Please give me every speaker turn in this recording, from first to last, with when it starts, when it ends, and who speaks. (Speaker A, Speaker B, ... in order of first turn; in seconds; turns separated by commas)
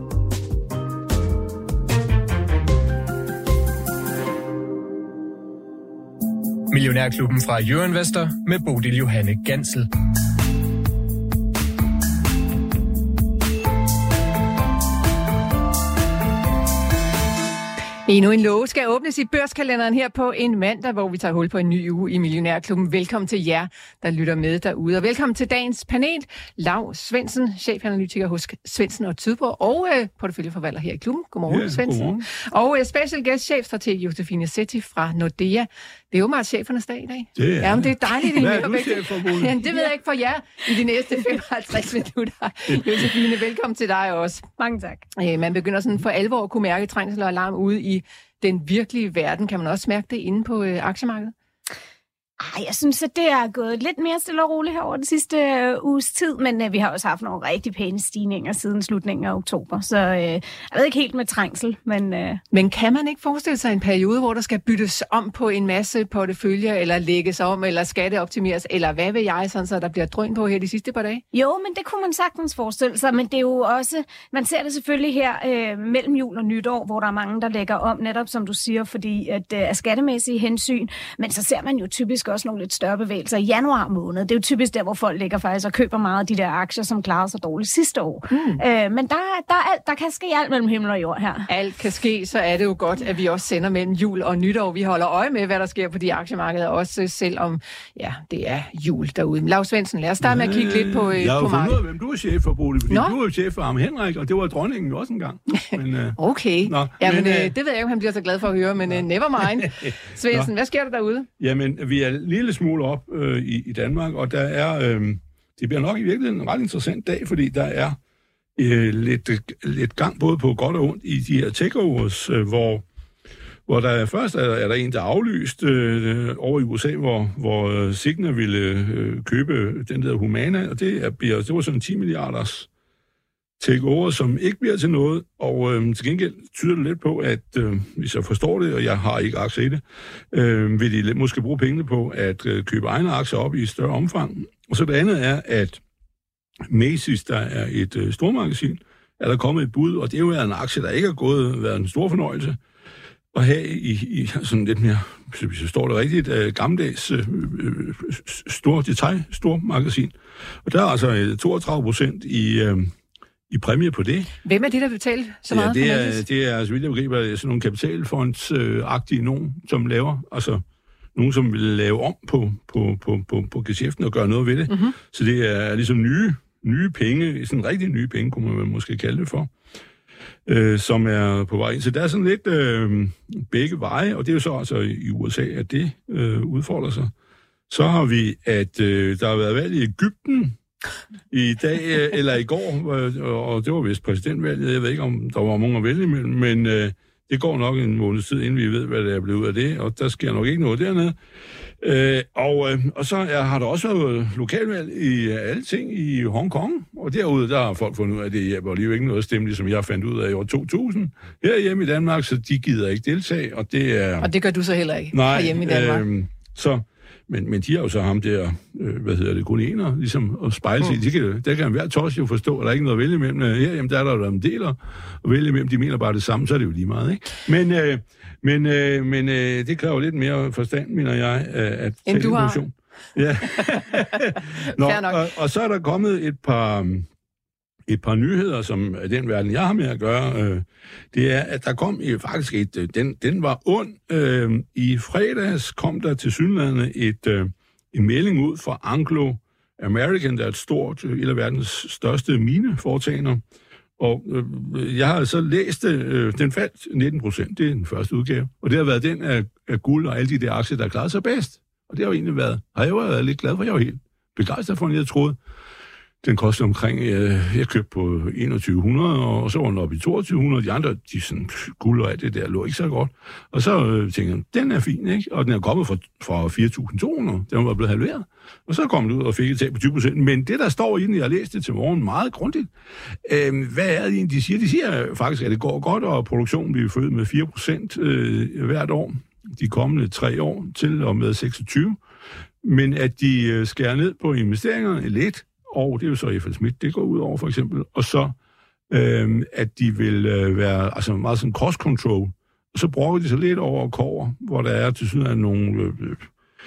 Speaker A: 6.7-9.8, Speaker B: 18.1-44.5, Speaker C: 31.5-32.3, Speaker C: 37.4-39.6, Speaker C: 42.7-43.0, Speaker D: 44.6-45.1, Speaker B: 45.2-51.3, Speaker D: 52.4-62.4, Speaker B: 62.5-71.2, Speaker D: 71.3-91.5, Speaker B: 88.3-88.6, Speaker B: 91.5-101.8, Speaker C: 100.2-107.5, Speaker B: 102.9-103.2, Speaker B: 106.2-111.3, Speaker C: 108.9-110.5, Speaker C: 111.4-118.0, Speaker C: 118.6-122.8, Speaker C: 123.7-132.7, Speaker C: 133.6-145.8, Speaker C: 146.7-152.6, Speaker C: 153.3-162.9, Speaker C: 163.5-164.3, Speaker B: 164.4-166.2, Speaker C: 165.5-170.6, Speaker C: 171.2-179.5, Speaker B: 174.7-174.9, Speaker C: 180.5-187.1, Speaker C: 187.7-190.6, Speaker C: 191.3-201.2, Speaker C: 201.8-214.3, Speaker B: 214.2-216.1, Speaker C: 215.1-237.1, Speaker B: 232.1-232.6, Speaker B: 233.5-235.2, Speaker C: 237.9-253.4, Speaker C: 254.0-265.4, Speaker C: 266.2-282.7, Speaker C: 283.2-292.0, Speaker C: 292.6-298.4, Speaker C: 298.9-306.3